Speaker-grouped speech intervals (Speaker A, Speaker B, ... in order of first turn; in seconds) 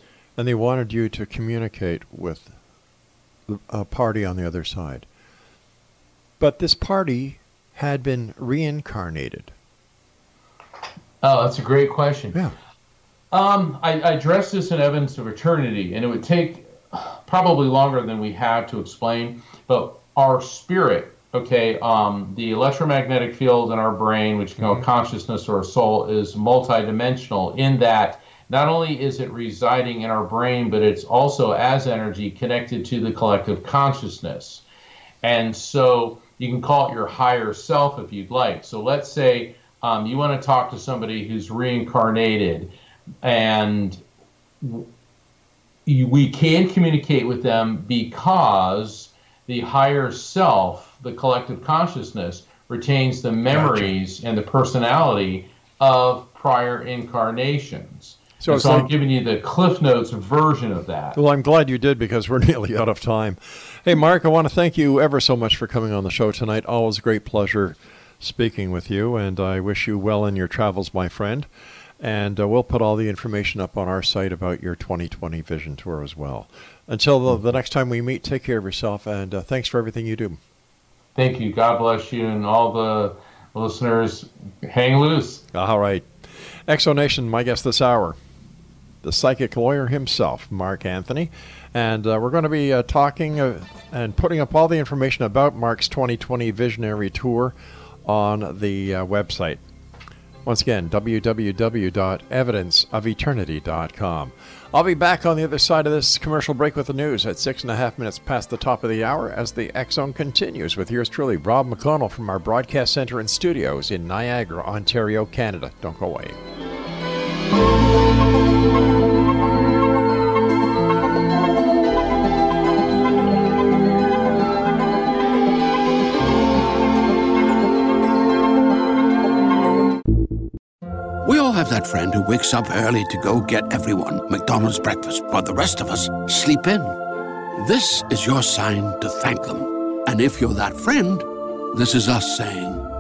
Speaker A: 0.4-2.5, 3.5-5.1, 6.4-9.5, 53.5-53.9, 58.4-58.9, 61.1-71.5, 72.0-80.4, 85.5-86.1, 86.7-88.2, 89.0-99.6, 100.5-116.4
Speaker B: 11.2-12.4, 13.3-34.6, 35.2-42.7, 43.2-44.0, 44.6-44.9, 45.9-61.2, 81.2-85.5
Speaker C: 131.2-137.0, 137.6-142.8